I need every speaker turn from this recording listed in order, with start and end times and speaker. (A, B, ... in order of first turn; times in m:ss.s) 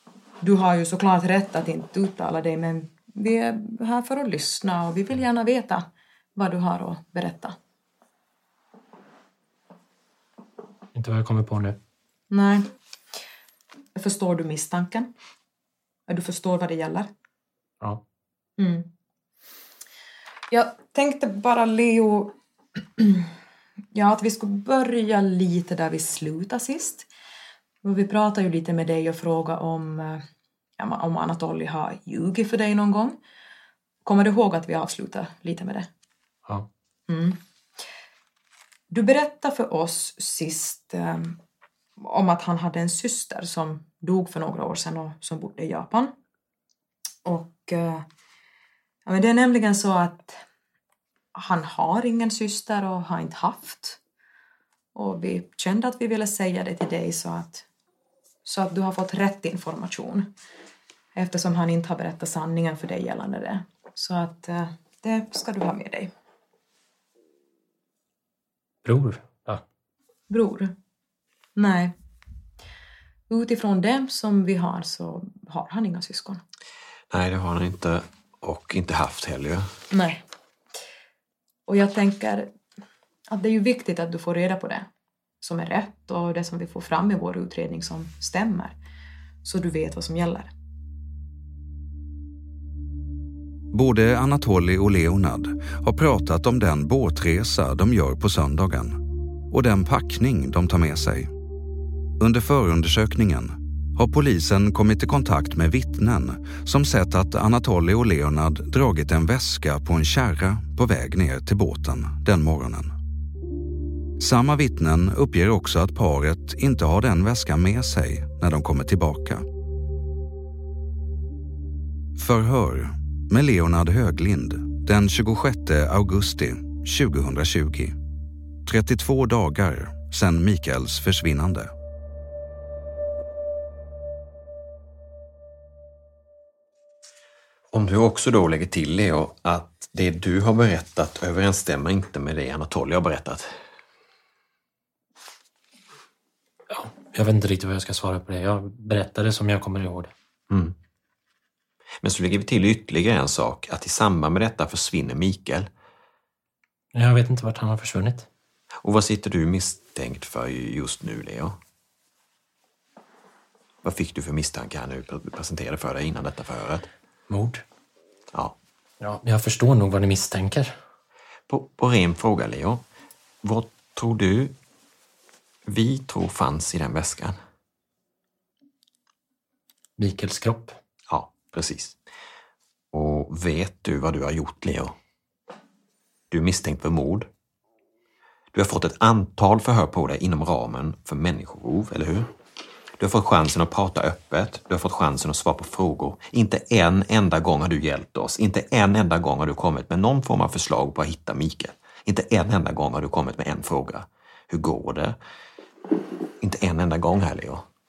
0:00.4-0:05.8 A
0:06.4-0:07.6 A
0:11.0-0:11.8 B
0:12.3-0:12.6 A
0:14.0-0:15.1 A
0:16.1-0:17.1 A
0:18.6-0:18.9 A
0:20.5-0:22.3 A
0:23.0-0:23.3 A
0:23.9-0:27.1 A
0:27.8-0:30.2 A
0:30.8-0:33.2 A
0:34.0-0:35.9 A
0:37.1-0:37.4 A
0:38.9-0:41.4 A
0:42.0-0:46.1 A
0:47.2-0:48.1 A
0:49.1-0:50.4 A
0:51.4-0:54.0 A
0:54.9-0:57.6 A
0:58.4-1:00.3 A
1:01.2-1:06.1 A
1:08.8-1:09.6 B
1:10.3-1:10.7 A
1:11.6-1:11.9 A
1:13.3-1:16.4 A
1:17.1-1:19.7 C
1:19.9-1:20.2 A
1:21.7-1:22.5 A
1:23.3-1:24.9 A
1:25.4-1:28.8 A
1:29.4-1:30.5 A
1:33.7-1:39.0 D
1:39.5-1:41.3 D
1:42.2-1:52.9 D
1:54.2-1:59.4 D
2:02.2-2:08.0 D
2:08.6-2:11.7 D
2:17.7-2:23.6 C
2:26.7-2:30.1 B
2:30.5-2:30.8 C
2:32.0-2:35.7 C
2:36.9-2:38.3 B
2:38.8-2:41.6 C
2:43.8-2:46.9 C
2:47.3-2:47.6 B
2:49.0-2:50.8 B
2:51.5-2:52.8 C
2:53.4-2:54.6 C
2:55.7-2:57.4 C
3:00.0-3:00.8 B
3:01.1-3:02.0 C
3:02.9-3:05.0 C
3:06.3-3:07.3 C
3:08.5-3:12.3 C
3:13.0-3:25.2 C
3:26.4-3:27.7 C